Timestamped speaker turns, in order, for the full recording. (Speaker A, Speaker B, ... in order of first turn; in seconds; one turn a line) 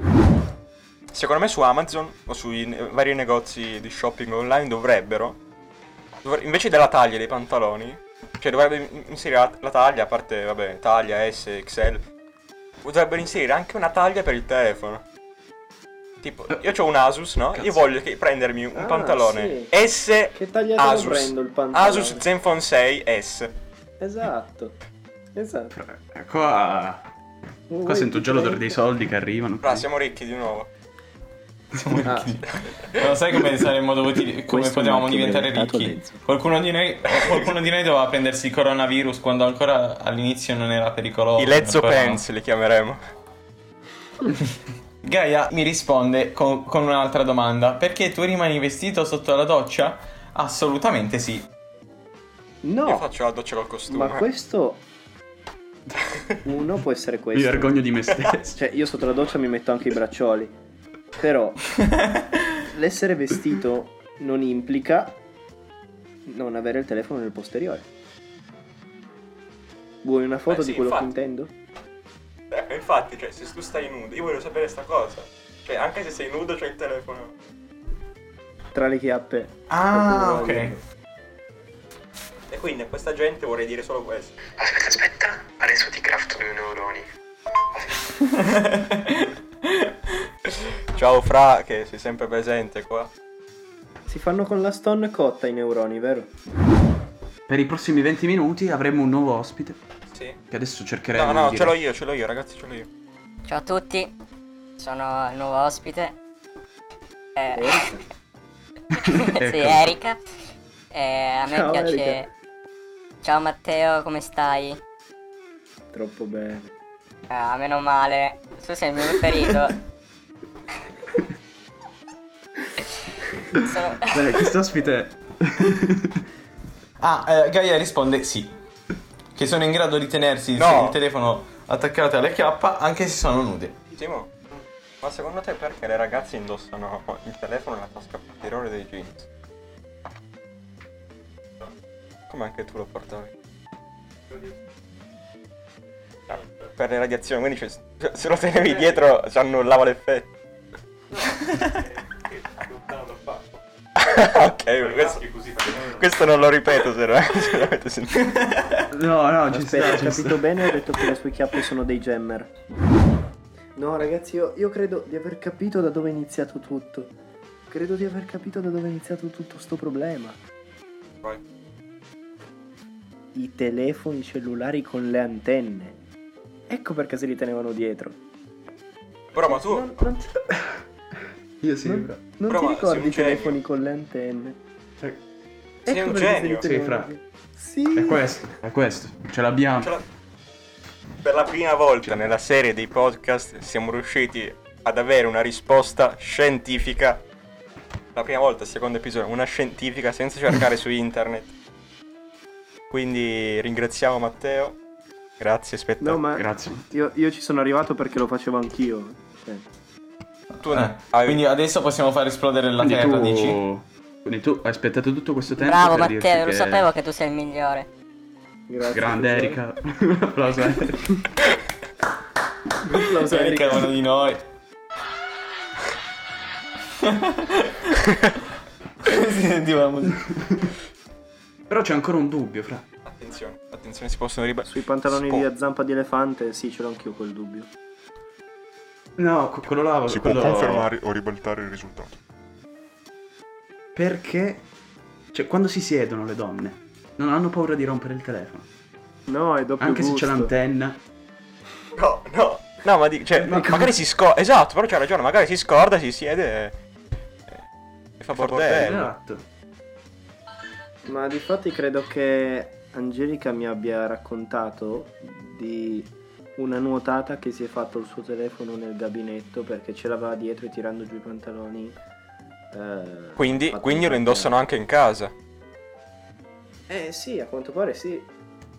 Speaker A: 1.1-5.4
Speaker A: 6.2-12.0
Speaker A: 12.8-15.0
Speaker A: 16.2-23.5
Speaker B: 18.7-19.7
Speaker B: 20.3-22.2
Speaker B: 24.0-24.8
Speaker B: 25.4-25.7
Speaker C: 25.7-27.1
Speaker B: 27.7-28.8
Speaker C: 27.8-29.9
Speaker A: 29.6-30.7
Speaker D: 31.8-42.2
Speaker B: 32.0-32.4
Speaker B: 34.5-36.2
Speaker A: 37.1-37.5
Speaker A: 41.4-43.0
Speaker D: 45.0-51.5
Speaker B: 52.6-53.1
Speaker A: 52.9-54.2
Speaker B: 53.9-54.8
Speaker B: 56.4-57.8
Speaker C: 57.3-58.6
Speaker B: 58.5-60.5
Speaker B: 61.2-61.9
Speaker B: 62.6-65.2
Speaker B: 66.2-67.8
Speaker B: 70.0-71.5
Speaker A: 70.5-71.1
Speaker A: 72.5-77.3
Speaker B: 78.7-80.8
Speaker D: 79.7-80.8
Speaker A: 82.5-84.3
Speaker E: 84.6-87.1
Speaker D: 88.4-90.1
Speaker A: 90.9-93.1
Speaker B: 94.1-96.3
Speaker C: 97.5-99.8
Speaker C: 100.5-101.7
Speaker A: 101.1-102.9
Speaker F: 103.4-104.1
Speaker F: 104.8-106.1
Speaker F: 107.4-107.8
Speaker B: 107.5-108.0
Speaker C: 109.0-109.9
Speaker F: 109.1-110.2
Speaker F: 110.9-112.3
Speaker B: 111.5-112.3
Speaker F: 113.2-114.8
Speaker B: 115.9-116.7
Speaker F: 117.3-119.8
Speaker F: 123.6-124.3
Speaker C: 124.1-126.2
Speaker D: 127.0-128.5
Speaker D: 129.3-133.7
Speaker A: 130.6-131.0
Speaker A: 133.9-139.3
Speaker A: 142.3-143.3
Speaker A: 146.3-150.3
Speaker A: 154.0-158.5
Speaker C: 154.9-156.0
Speaker D: 158.2-158.8
Speaker C: 158.9-160.5
Speaker B: 159.5-162.5
Speaker B: 163.8-167.1
Speaker B: 167.7-170.4
Speaker B: 173.3-176.0
Speaker B: 176.7-178.2
Speaker A: 179.3-180.0
Speaker B: 179.4-180.5
Speaker C: 181.6-182.2
Speaker B: 181.8-184.6
Speaker A: 182.5-183.6
Speaker B: 185.8-188.2
Speaker A: 185.9-186.7
Speaker C: 186.6-187.1
Speaker C: 187.9-189.9
Speaker A: 191.2-197.2
Speaker A: 198.1-201.5
Speaker A: 202.9-204.8
Speaker A: 205.4-206.2
Speaker B: 206.0-209.6
Speaker C: 206.3-206.9
Speaker D: 210.6-213.6
Speaker A: 210.6-211.4
Speaker C: 212.8-216.8
Speaker F: 215.6-217.9
Speaker B: 218.7-219.6
Speaker C: 218.9-221.1
Speaker B: 222.8-223.9
Speaker D: 222.9-224.4
Speaker D: 227.0-227.9
Speaker D: 229.0-230.3
Speaker C: 231.7-232.8
Speaker A: 233.1-235.4
Speaker B: 234.7-237.7
Speaker C: 239.2-240.9
Speaker G: 240.1-242.2
Speaker C: 243.9-244.6
Speaker C: 245.3-248.7
Speaker B: 249.3-250.5
Speaker C: 249.8-251.0
Speaker A: 251.9-256.7
Speaker C: 253.4-253.9
Speaker A: 258.2-259.1
Speaker C: 258.3-259.4
Speaker B: 261.1-272.0
Speaker B: 272.7-274.6
Speaker A: 273.4-275.3
Speaker B: 276.9-278.3